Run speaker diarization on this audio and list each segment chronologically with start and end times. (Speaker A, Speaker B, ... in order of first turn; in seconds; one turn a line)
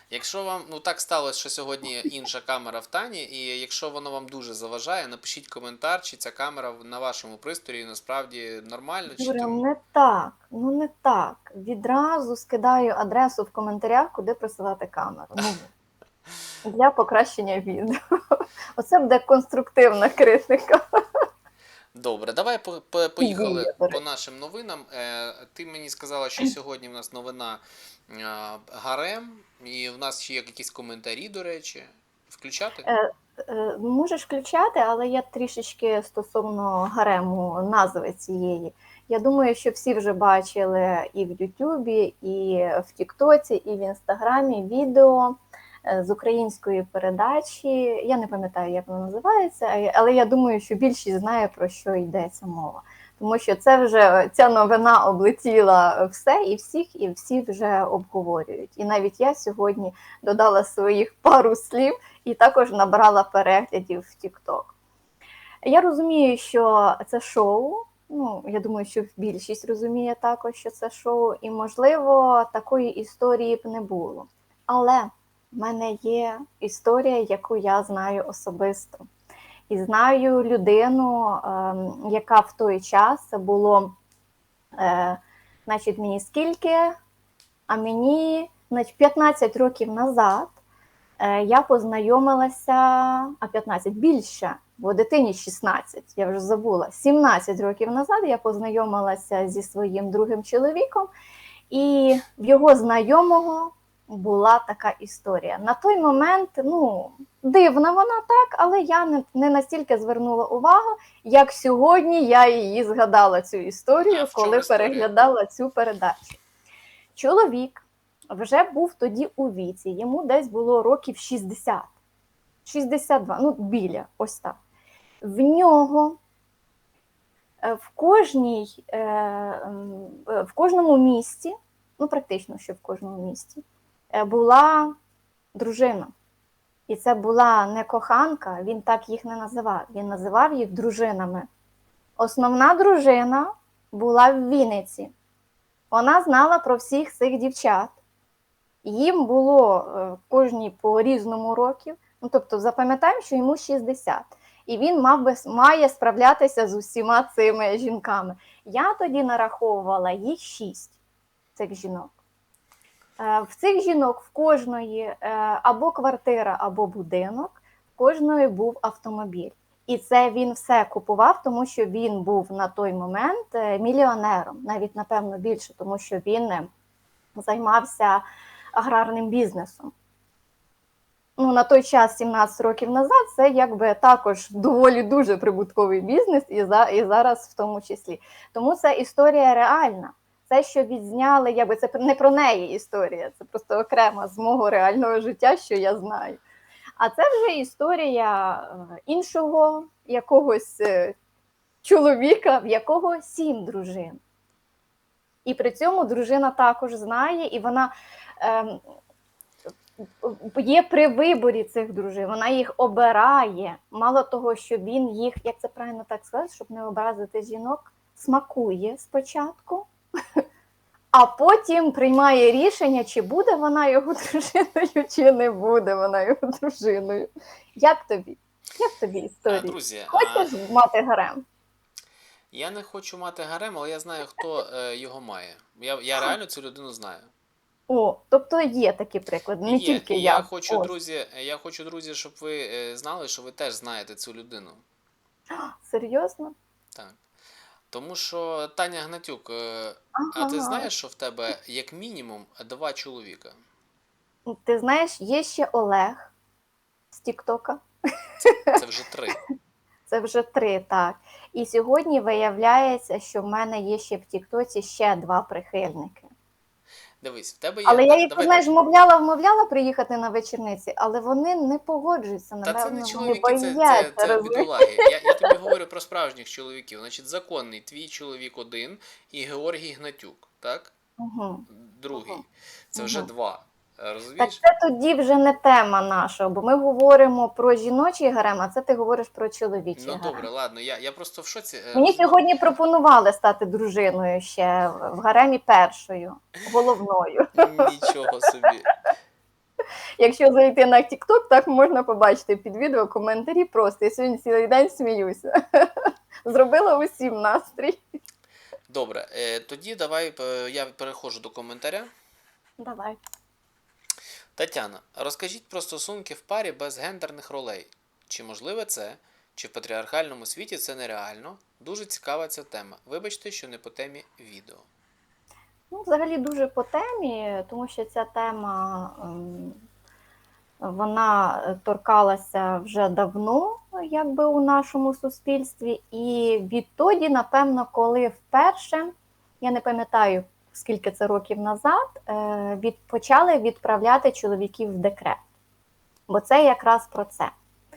Speaker A: 0.1-9.6
Speaker B: 9.2-15.7
Speaker B: 16.6-20.8
Speaker A: 21.9-32.9
Speaker B: 23.2-24.0
Speaker B: 32.9-64.7
Speaker B: 65.6-79.1
Speaker B: 79.7-84.0
Speaker B: 84.8-87.0
Speaker B: 87.7-90.5
Speaker B: 91.2-101.1
Speaker B: 101.7-116.4
Speaker A: 114.0-115.1
Speaker B: 117.2-121.9
Speaker B: 122.7-124.6
Speaker B: 125.2-126.2
Speaker B: 127.6-134.9
Speaker B: 135.6-136.1
Speaker B: 136.9-141.5
Speaker B: 142.2-145.1
Speaker B: 145.9-148.0
Speaker B: 148.8-161.0
Speaker B: 161.6-162.1
Speaker B: 163.2-176.7
Speaker B: 177.3-179.9
Speaker B: 181.4-196.4
Speaker B: 197.0-201.2
Speaker B: 201.8-204.2
Speaker B: 205.4-208.8
Speaker B: 210.0-220.4
Speaker B: 221.1-231.4
Speaker A: 229.5-230.6
Speaker A: 232.5-237.3
Speaker B: 237.9-240.9
Speaker A: 239.7-244.8
Speaker B: 245.5-246.6
Speaker A: 247.9-253.6
Speaker B: 250.2-250.9
Speaker B: 254.5-256.3
Speaker B: 257.1-257.8
Speaker B: 258.4-258.7
Speaker A: 258.7-259.4
Speaker B: 260.1-266.3
Speaker A: 267.2-268.7
Speaker B: 267.9-275.5
Speaker A: 272.6-280.9
Speaker B: 281.2-282.4
Speaker A: 281.7-284.6
Speaker B: 283.0-283.3
Speaker B: 284.4-290.5
Speaker A: 290.0-292.4
Speaker B: 291.9-297.9
Speaker A: 297.6-298.9
Speaker B: 300.2-308.0
Speaker A: 308.9-312.1
Speaker B: 312.8-313.2
Speaker A: 314.6-324.9
Speaker B: 325.9-329.8
Speaker B: 330.8-345.4
Speaker B: 346.3-347.5